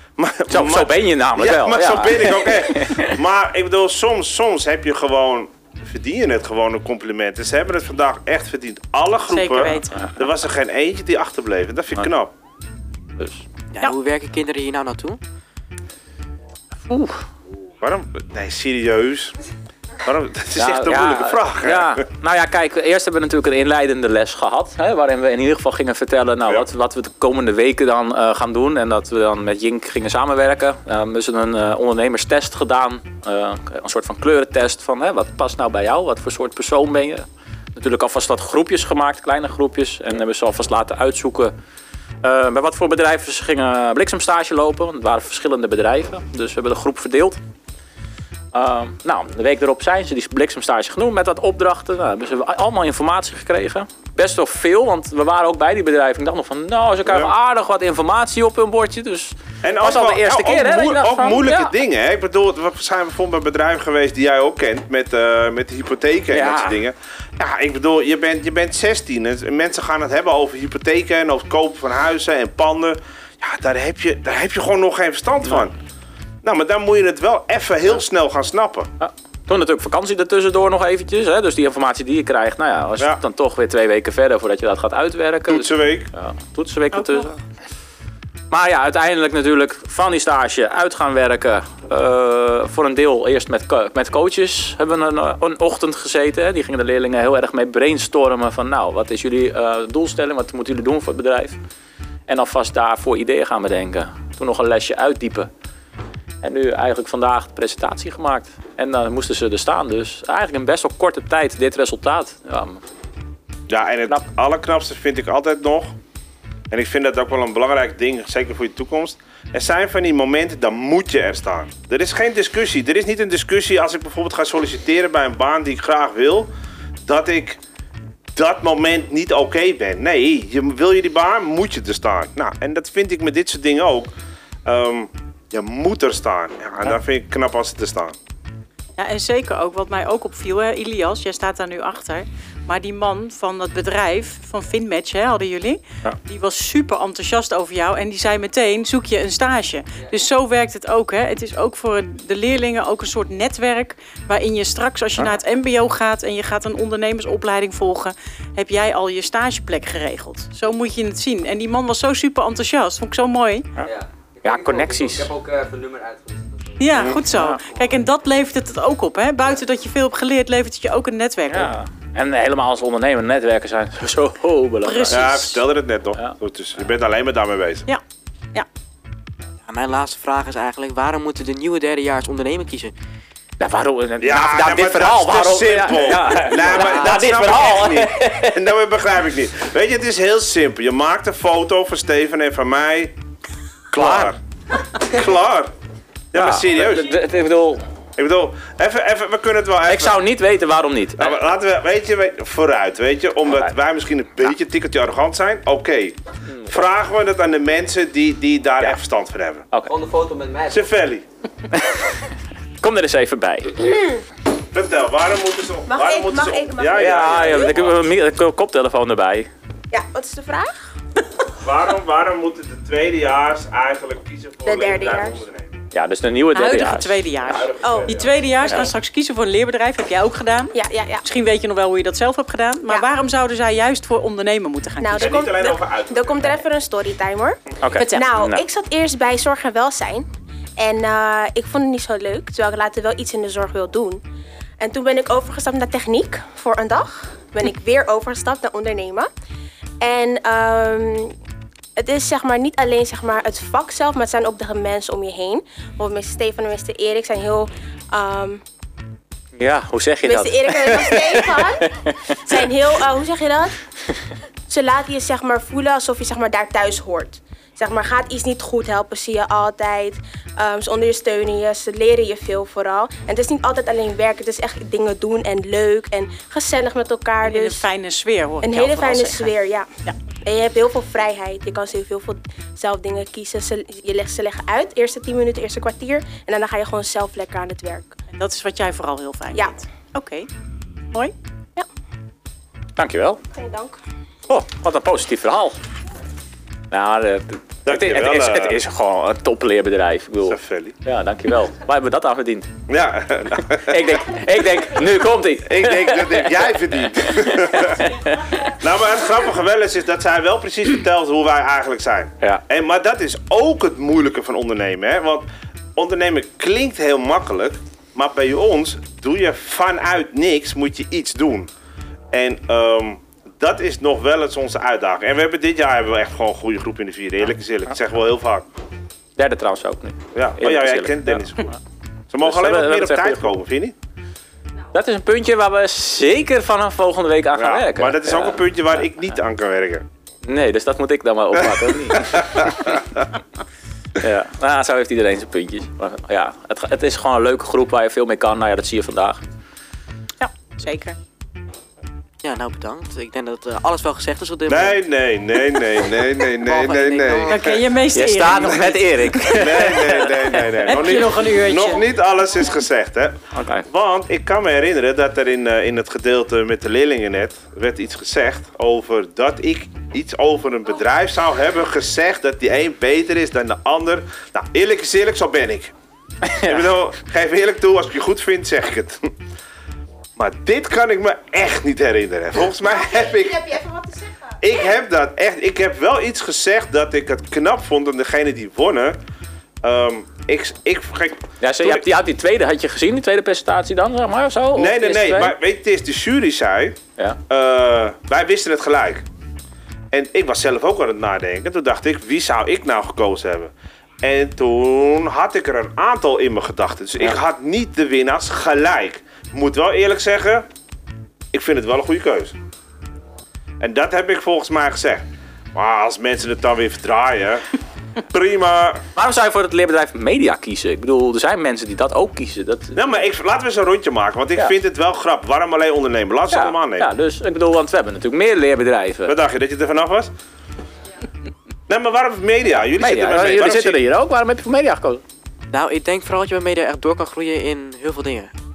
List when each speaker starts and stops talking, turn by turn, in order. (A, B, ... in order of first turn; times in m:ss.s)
0:00.2-0:12.3 A
0:00.5-0:03.2 B
0:09.3-0:10.0 C
0:09.9-0:10.2 B
0:13.2-0:13.4 B
0:13.7-0:15.2 D
0:16.8-0:17.2 B
0:17.8-0:19.3 A
0:20.0-0:22.0 A
0:20.6-0:41.5 B
0:42.2-0:47.4 B
0:48.5-1:01.7 B
0:57.0-0:57.3 A
0:59.6-1:15.7 A
1:06.3-1:06.8 B
1:16.4-1:18.9 A
1:19.0-1:27.4 B
1:25.5-1:26.1 A
1:26.9-1:27.3 C
1:28.5-1:41.6 B
1:42.3-1:45.5 B
1:46.4-1:52.8 B
1:53.7-1:55.9 A
1:56.7-2:06.5 A
2:07.0-2:07.6 A
2:08.4-2:14.1 A
2:14.6-2:18.2 A
2:19.0-2:43.7 C
2:43.8-2:46.9 E
2:44.4-2:45.3 B
2:46.8-2:51.7 C
2:47.3-2:47.6 B
2:51.5-2:55.3 B
2:54.8-2:55.6 C
2:55.1-2:57.8 A
2:59.7-3:02.9 D
3:03.6-3:08.6 B
3:04.2-3:13.1 A
3:06.7-3:07.2 D
3:13.9-3:14.4 A
3:13.9-3:14.3 B
3:15.0-3:15.7 A
3:16.3-3:17.1 A
3:16.3-3:17.8 B
3:18.2-3:20.2 A
3:19.9-3:21.4 B
3:21.2-3:29.7 A
3:23.5-3:23.7 B
3:29.8-3:30.7 E
3:30.6-3:31.2 A
3:31.7-3:32.0 B
3:32.8-3:33.8 B
3:34.7-3:37.2 A
3:35.9-3:38.0 F
3:37.0-3:39.5 B
3:39.9-3:40.8 F
3:41.6-3:45.7 A
3:44.6-3:45.4 F
3:45.9-3:47.7 B
3:46.5-3:55.3 C
3:47.6-3:48.5 A
3:47.8-3:48.9 F
3:50.7-3:51.2 F
3:55.0-4:00.2 F
3:55.2-3:56.6 A
3:57.8-3:58.6 B
3:58.0-3:58.2 C
4:00.8-4:04.2 F
4:04.8-4:09.3 F
4:10.0-4:11.3 F
4:12.0-4:18.6 F
4:19.6-4:22.6 B
4:20.2-4:21.8 F
4:22.4-4:23.8 F
4:24.7-4:37.9 F
4:37.4-4:39.5 C
4:38.6-4:39.9 F
4:40.4-4:48.1 F
4:48.3-4:50.5 C
4:53.0-4:53.4 B
4:53.5-4:54.0 F
4:54.5-4:55.8 B
4:56.9-5:02.7 B
4:57.8-4:58.8 A
5:00.4-5:01.0 A
5:02.9-5:03.8 A
5:03.7-5:08.4 B
5:05.6-5:08.0 A
5:08.8-5:21.7 A
5:22.3-5:28.7 A
5:29.4-5:31.8 B
5:30.3-5:31.6 A
5:32.3-5:33.9 A
5:32.4-5:33.6 B
5:34.9-5:39.4 B
5:37.5-5:40.0 A
5:40.4-5:43.0 B
5:44.2-5:49.4 B
5:50.4-5:51.2 C
5:52.4-5:55.0 D
5:54.7-5:57.8 A
5:56.5-5:57.6 D
5:57.5-5:59.0 C
5:58.1-6:01.0 B
5:59.5-6:03.3 A
6:00.5-6:02.0 C
6:03.6-6:03.8 B
6:03.9-6:15.9 A
6:16.5-6:16.8 B
6:16.6-6:19.2 A
6:20.4-6:23.7 A
6:22.8-6:24.5 F
6:24.6-6:29.2 A
6:29.8-6:32.0 A
6:31.6-6:35.6 B
6:34.7-6:37.0 A
6:37.5-6:39.2 A
6:40.1-6:43.7 A
6:44.2-6:50.6 A
6:51.5-6:52.5 A
6:53.8-6:55.2 A
6:55.7-6:57.6 A
6:58.3-6:59.0 A
6:59.2-7:03.0 B
7:03.0-7:07.0 A
7:06.5-7:09.4 B
7:09.3-7:10.3 A
7:11.9-7:14.0 A
7:12.8-7:15.2 B
7:15.7-7:18.5 D